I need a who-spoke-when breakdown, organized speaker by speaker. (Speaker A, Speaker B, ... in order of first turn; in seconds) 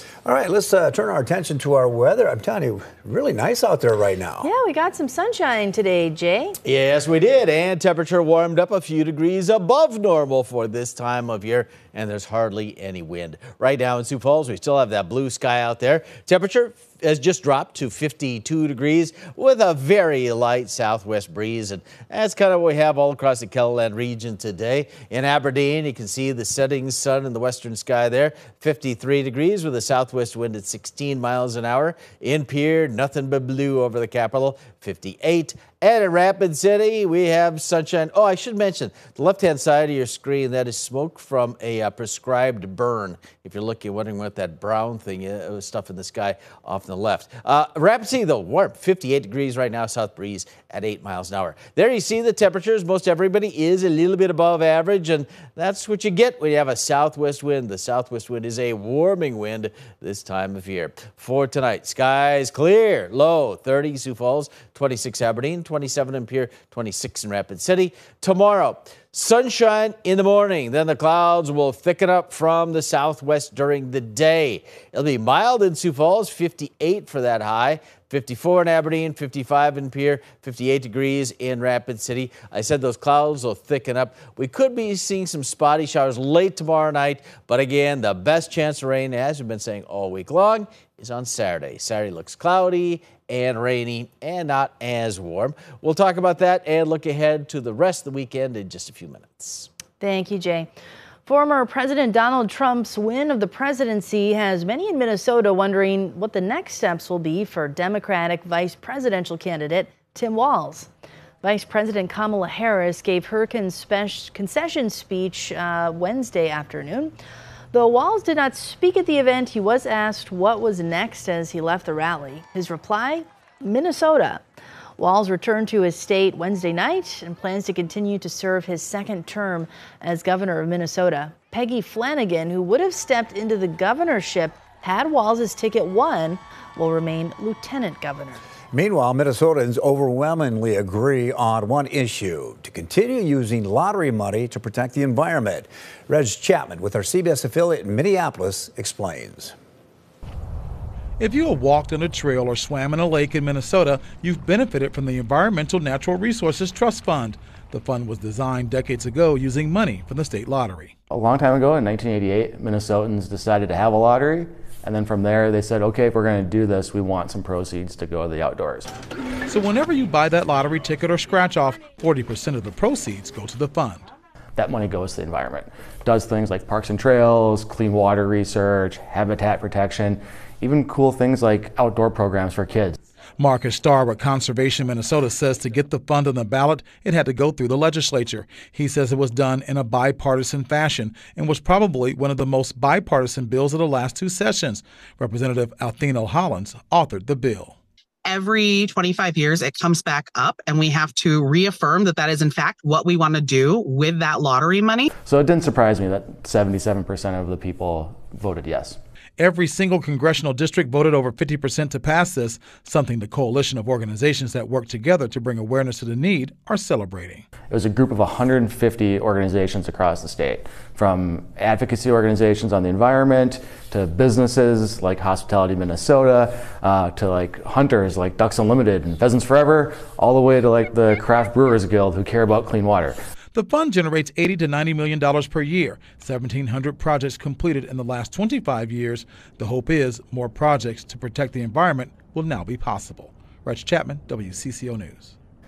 Speaker A: 0.2-4.5, 138.7-149.5
Speaker B: 4.4-6.5, 100.0-100.7, 101.2-110.9, 111.4-117.1, 117.7-124.4, 125.0-138.4
Speaker C: 6.6-99.7
Speaker D: 151.2-160.9, 169.5-174.0, 183.4-197.8, 209.4-217.5, 233.5-245.3
Speaker E: 161.1-168.9, 174.6-183.0, 205.2-209.0, 217.7-233.2
Speaker F: 198.2-205.1